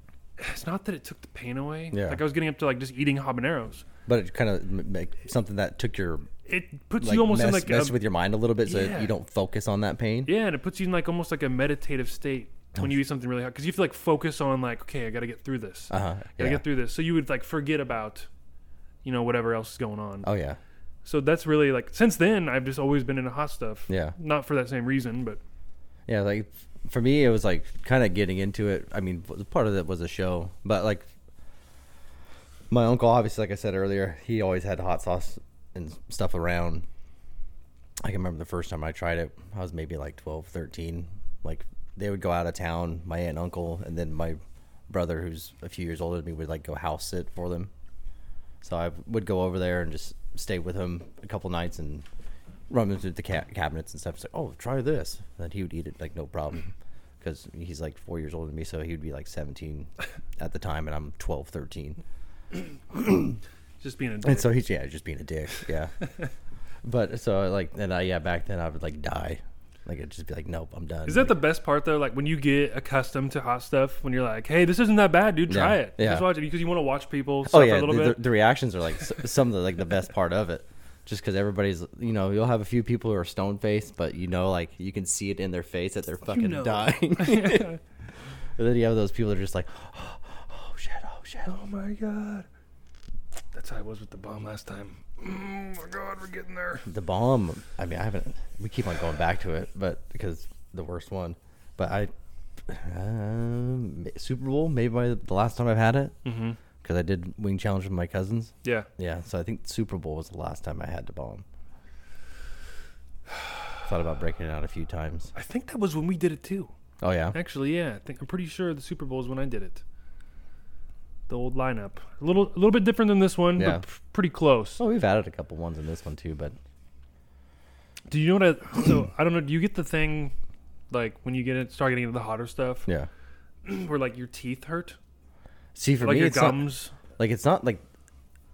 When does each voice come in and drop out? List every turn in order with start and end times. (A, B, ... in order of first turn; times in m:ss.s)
0:00.4-0:03.8 A
0:01.9-0:02.2 B
0:04.1-0:06.3 B
0:06.5-0:08.0 A
0:07.0-0:10.3 B
0:08.6-0:09.1 A
0:10.3-0:18.3 A
0:15.9-0:16.6 B
0:19.0-0:20.3 A
0:20.2-0:20.6 B
0:21.0-0:25.4 A
0:23.9-0:24.2 B
0:26.1-0:31.1 B
0:32.7-0:36.9 B
0:38.0-0:47.7 B
0:48.6-0:52.1 B
0:52.7-1:02.0 B
1:02.9-1:03.4 B
1:03.8-1:04.5 A
1:04.2-1:05.9 B
1:06.8-1:11.4 B
1:11.1-1:18.2 A
1:15.5-1:16.3 B
1:17.5-1:27.8 B
1:26.3-1:27.8 A
1:28.6-1:31.5 B
1:31.5-1:32.5 A
1:33.5-1:36.9 A
1:36.9-1:42.1 B
1:42.7-1:46.2 B
1:46.2-1:46.6 A
1:46.8-1:51.4 B
1:53.8-1:55.3 B
1:55.4-1:56.7 A
1:57.0-1:57.4 B
1:57.3-1:59.8 A
2:01.3-2:04.8 A
2:03.6-2:03.8 B
2:04.8-2:06.6 B
2:08.1-2:10.3 A
2:10.9-2:12.9 A
2:13.6-2:15.0 A
2:15.8-2:16.7 B
2:16.0-2:17.0 A
2:17.2-2:17.8 B